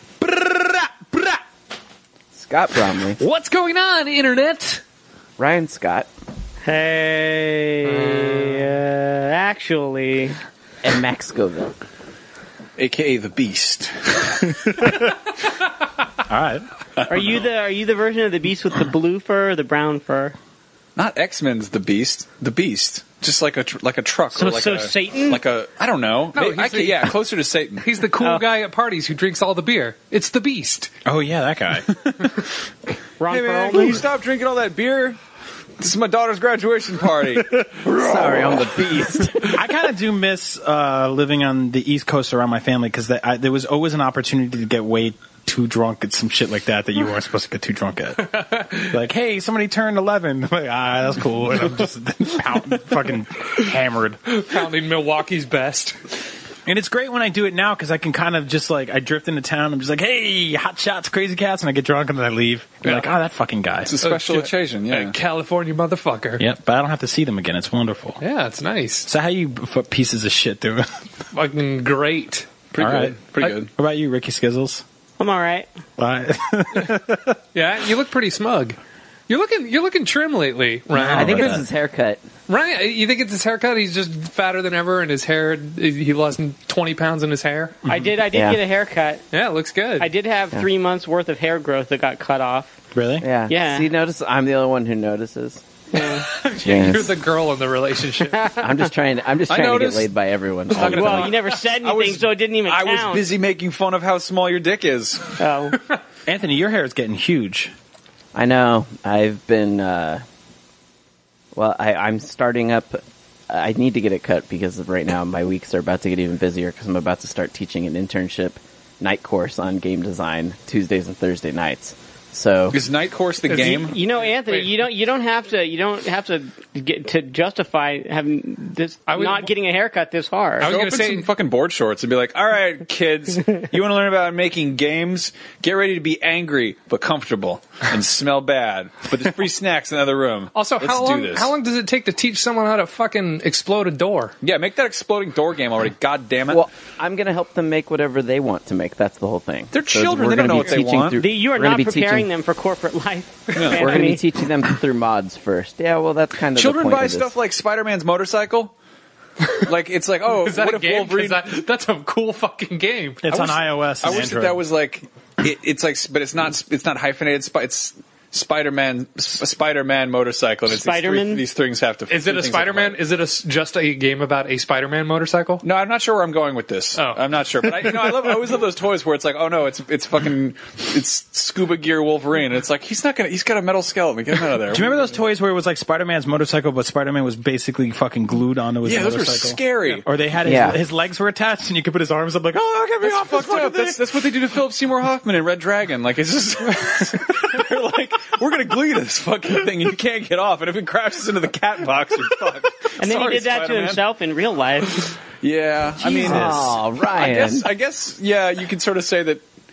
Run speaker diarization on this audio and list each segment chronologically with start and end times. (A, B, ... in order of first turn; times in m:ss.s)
0:00.2-0:01.4 A
0:02.3-0:03.2 B
0:03.2-0:04.8 A
0:05.4-0:06.1 B
0:06.6-0:10.4 C
0:07.8-0:08.7 A
0:10.8-0:11.8 B
0:12.8-0:14.6 D
0:14.6-0:15.1 E
0:16.3-0:16.7 E
0:17.0-0:17.4 D
0:17.1-0:20.4 C
0:21.0-0:27.9 D
0:24.3-0:25.4 C
0:26.3-0:27.1 A
0:27.8-0:30.9 A
0:28.2-0:28.4 C
0:31.0-0:31.9 E
0:31.9-0:32.2 D
0:33.2-0:34.0 C
0:33.3-0:35.2 D
0:35.8-0:37.6 D
0:37.8-0:39.6 B
0:38.2-0:38.6 D
0:39.5-0:54.2 E
0:48.4-0:48.9 A
0:54.3-0:56.0 A
0:56.7-1:04.0 E
1:03.8-1:05.2 D
1:04.0-1:06.4 A
1:06.4-1:08.2 E
1:08.2-1:09.1 A
1:09.1-1:10.9 E
1:11.3-1:12.5 A
1:12.7-1:13.7 D
1:12.8-1:14.8 E
1:15.2-1:15.7 C
1:16.0-1:17.4 E
1:17.5-1:18.8 A
1:19.3-1:21.5 A
1:20.9-1:21.7 E
1:21.1-1:22.2 B
1:22.5-1:27.8 A
1:27.9-1:29.3 C
1:28.3-1:28.6 B
1:29.3-1:30.1 A
1:30.0-1:32.8 C
1:32.9-1:33.3 E
1:33.2-1:35.7 B
1:33.5-1:33.9 C
1:35.9-1:36.3 C
1:36.0-1:38.5 A
1:36.6-1:37.2 B
1:38.3-1:38.7 C
1:38.6-1:41.4 B
1:39.5-1:40.1 D
1:40.7-1:45.4 D
1:40.8-1:43.3 C
1:45.4-1:45.8 C
1:46.3-1:47.7 E
1:48.3-1:50.2 B
1:51.6-2:02.8 B
2:02.7-2:04.0 D
2:03.5-2:04.7 A
2:03.6-2:10.8 C
2:09.1-2:09.5 A
2:10.6-2:11.3 A
2:10.6-2:21.5 D
2:20.5-2:24.4 A
2:24.4-2:26.6 D
2:26.5-2:32.3 B
2:29.7-2:31.2 D
2:31.2-2:34.2 C
2:33.6-2:34.0 D
2:33.7-2:37.3 B
2:36.6-2:38.7 D
2:39.6-2:41.4 D
2:40.3-2:43.5 A
2:43.2-2:44.6 E
2:44.0-2:53.0 D
2:50.7-2:51.4 C
2:52.1-2:55.6 A
2:55.6-3:05.0 D
2:57.0-2:57.2 A
3:04.7-3:14.1 E
3:08.8-3:10.1 D
3:10.4-3:10.8 B
3:13.0-3:24.0 D
3:23.0-3:25.1 C
3:25.4-3:29.4 D
3:26.0-3:26.8 E
3:26.2-3:27.7 B